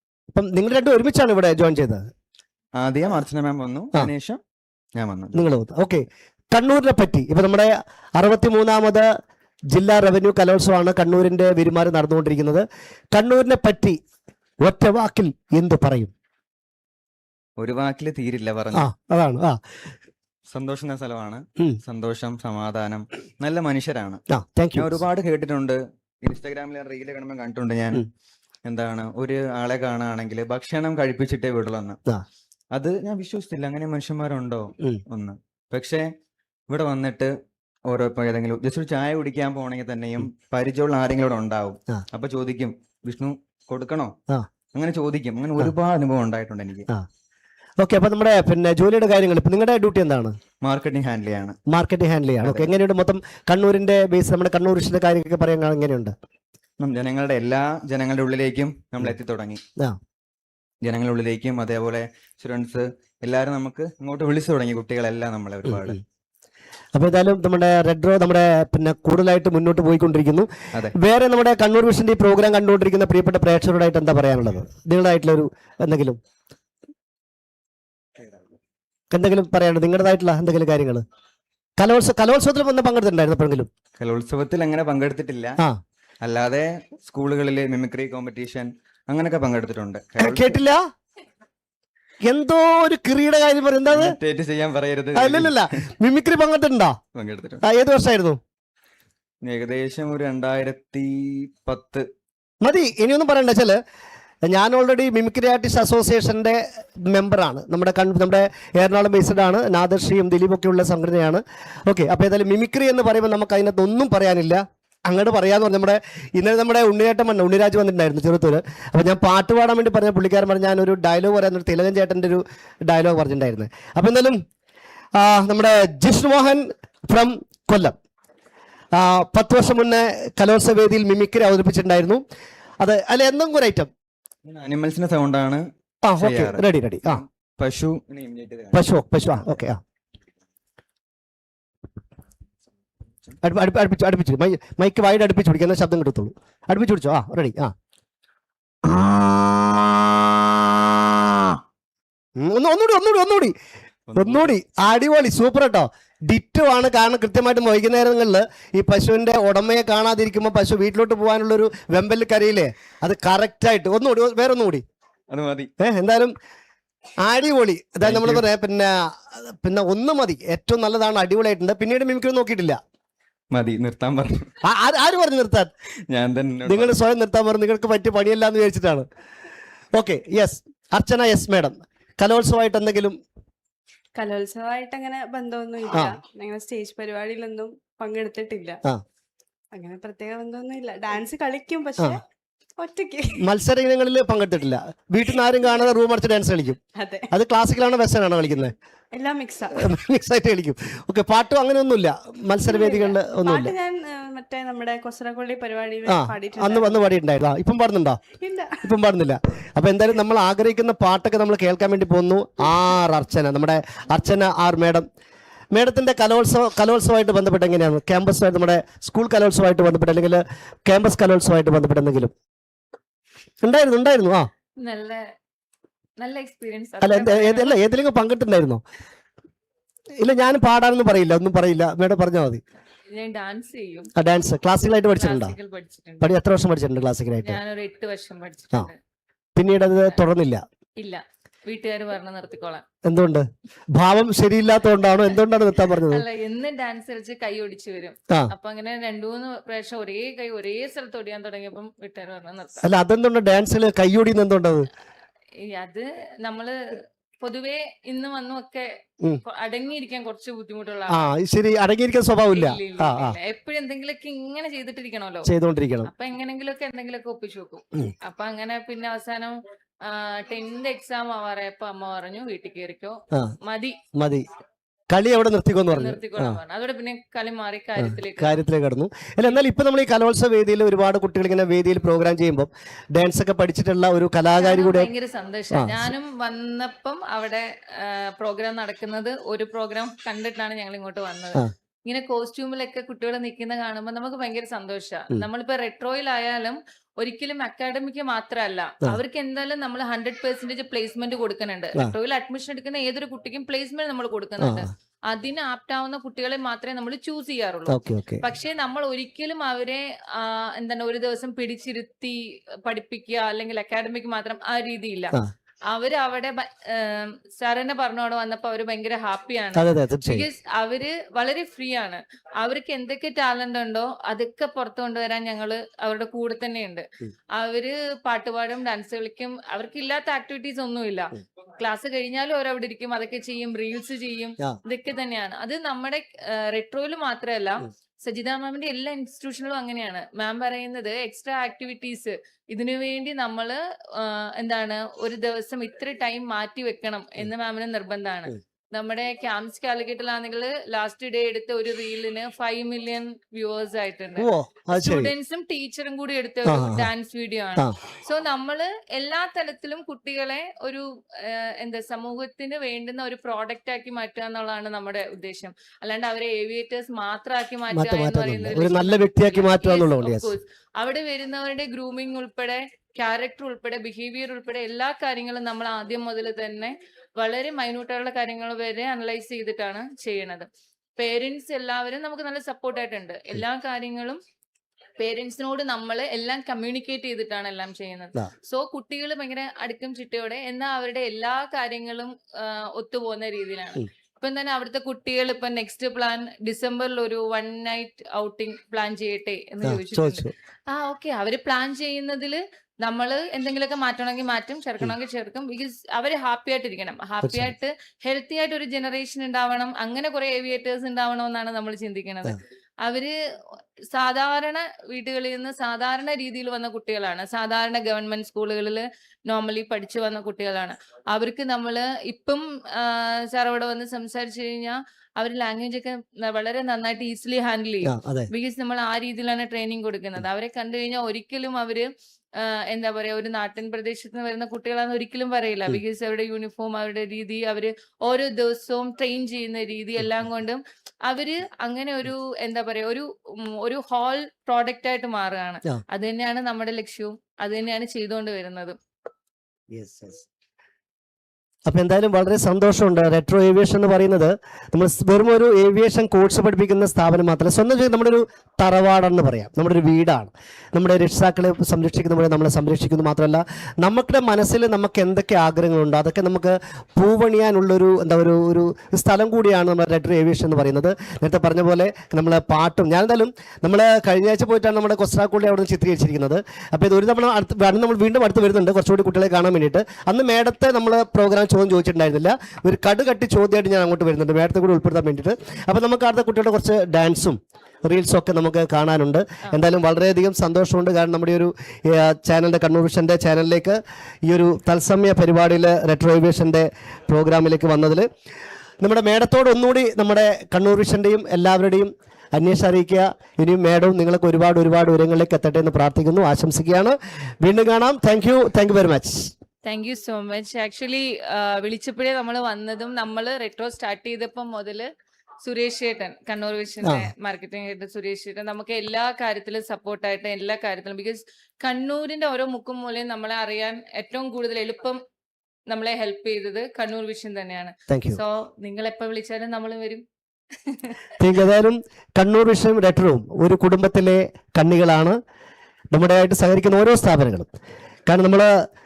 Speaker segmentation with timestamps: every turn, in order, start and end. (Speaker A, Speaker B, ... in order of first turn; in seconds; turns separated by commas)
Speaker A: 0.3-2.1, Speaker B: 2.8-4.4, Speaker B: 5.0-5.5, Speaker A: 5.3-9.1, Speaker A: 9.7-14.0, Speaker A: 14.6-16.1, Speaker B: 17.6-18.9, Speaker A: 18.7-19.6, Speaker B: 20.5-24.2, Speaker A: 24.3-25.0, Speaker B: 24.8-28.0, Speaker B: 28.6-32.0, Speaker B: 32.7-36.1, Speaker B: 36.7-37.3, Speaker B: 37.9-44.1, Speaker B: 44.7-46.9, Speaker A: 47.8-50.4, Speaker B: 50.6-51.6, Speaker A: 51.7-56.1, Speaker B: 52.4-52.7, Speaker B: 56.8-59.6, Speaker B: 60.8-66.0, Speaker A: 65.7-66.0, Speaker A: 67.0-76.2, Speaker A: 79.1-81.0, Speaker A: 81.8-83.7, Speaker B: 84.0-85.6, Speaker B: 86.2-90.6, Speaker A: 90.2-90.8, Speaker A: 92.2-94.2, Speaker B: 93.9-95.6, Speaker A: 95.2-97.0, Speaker B: 97.2-97.6, Speaker A: 97.6-98.4, Speaker B: 99.5-102.1, Speaker A: 102.6-103.8, Speaker A: 104.5-124.4, Speaker A: 125.2-128.0, Speaker A: 128.9-132.2, Speaker A: 132.8-133.9, Speaker B: 134.4-135.6, Speaker A: 136.1-137.2, Speaker B: 136.2-138.8, Speaker A: 138.7-139.8, Speaker A: 143.4-147.7, Speaker A: 152.4-153.6, Speaker B: 154.1-154.5, Speaker A: 154.2-164.8, Speaker B: 165.3-165.7, Speaker A: 165.8-166.3, Speaker A: 167.2-172.8, Speaker B: 168.0-168.5, Speaker B: 173.5-174.5, Speaker A: 174.6-175.7, Speaker B: 176.1-177.0, Speaker A: 176.7-179.1, Speaker A: 179.9-183.2, Speaker C: 184.2-188.8, Speaker C: 189.8-192.2, Speaker C: 192.8-193.4, Speaker A: 193.4-196.8, Speaker C: 197.0-197.3, Speaker A: 197.3-198.8, Speaker C: 199.1-199.9, Speaker A: 199.8-203.7, Speaker C: 202.6-207.0, Speaker A: 206.1-208.2, Speaker C: 208.4-208.8, Speaker A: 208.8-215.1, Speaker A: 215.7-222.3, Speaker A: 223.6-224.5, Speaker D: 224.8-225.2, Speaker D: 226.2-227.8, Speaker A: 227.0-228.8, Speaker A: 230.2-232.6, Speaker D: 233.2-234.1, Speaker A: 234.2-235.5, Speaker D: 235.1-236.4, Speaker A: 236.2-237.6, Speaker D: 237.4-239.0, Speaker A: 239.6-240.6, Speaker D: 241.0-242.8, Speaker A: 243.1-246.2, Speaker D: 246.0-252.9, Speaker A: 252.8-254.9, Speaker D: 255.7-256.8, Speaker D: 257.4-258.9, Speaker D: 259.4-261.2, Speaker A: 261.1-263.4, Speaker D: 262.5-265.5, Speaker A: 265.5-266.1, Speaker D: 266.1-274.0, Speaker A: 274.2-274.5, Speaker A: 275.1-276.6, Speaker D: 275.9-278.6, Speaker A: 278.0-285.1, Speaker D: 284.6-315.4, Speaker A: 285.7-286.1, Speaker A: 304.6-304.9, Speaker A: 307.9-308.4, Speaker D: 315.9-327.0, Speaker A: 319.8-320.5, Speaker D: 327.6-380.7, Speaker A: 354.4-355.3, Speaker A: 356.6-357.1, Speaker A: 367.9-370.5, Speaker D: 381.2-384.4, Speaker D: 385.2-413.3, Speaker A: 399.8-400.5, Speaker A: 407.4-407.7, Speaker D: 414.1-432.1, Speaker A: 428.1-428.5, Speaker D: 432.6-449.0, Speaker A: 449.9-450.5, Speaker A: 451.9-498.3, Speaker A: 499.0-509.5, Speaker D: 509.9-515.1, Speaker D: 515.6-525.2, Speaker A: 517.0-517.3, Speaker D: 525.9-530.2, Speaker A: 528.1-528.4, Speaker D: 530.9-531.2, Speaker A: 531.4-535.4, Speaker A: 536.1-537.7, Speaker A: 538.3-538.7